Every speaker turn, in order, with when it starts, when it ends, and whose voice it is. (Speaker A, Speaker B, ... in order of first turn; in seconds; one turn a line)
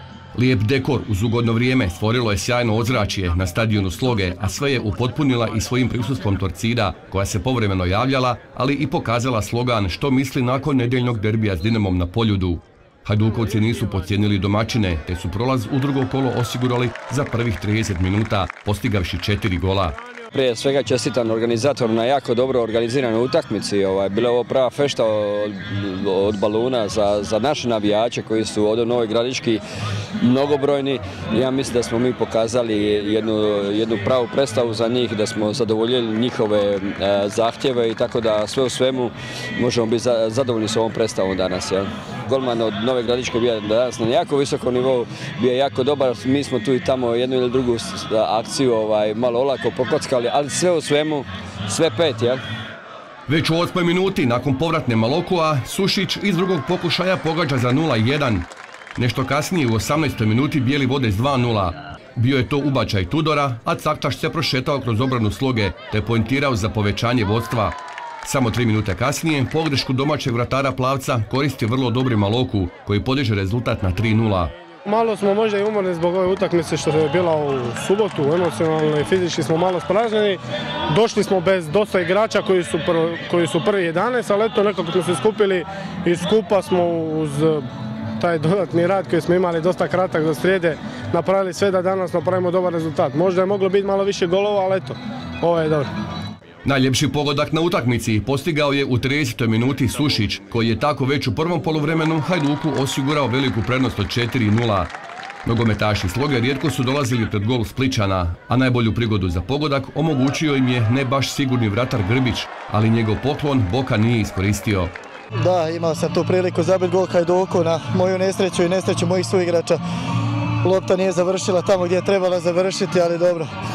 Speaker A: 0.3-19.9
Speaker B: 20.3-29.6
Speaker B: 30.2-52.4
Speaker A: 53.3-74.5
Speaker C: 74.8-80.4
Speaker C: 80.9-87.6
Speaker C: 88.2-95.9
Speaker A: 96.6-104.9
Speaker A: 105.5-114.9
Speaker D: 115.4-119.8
Speaker D: 120.6-123.5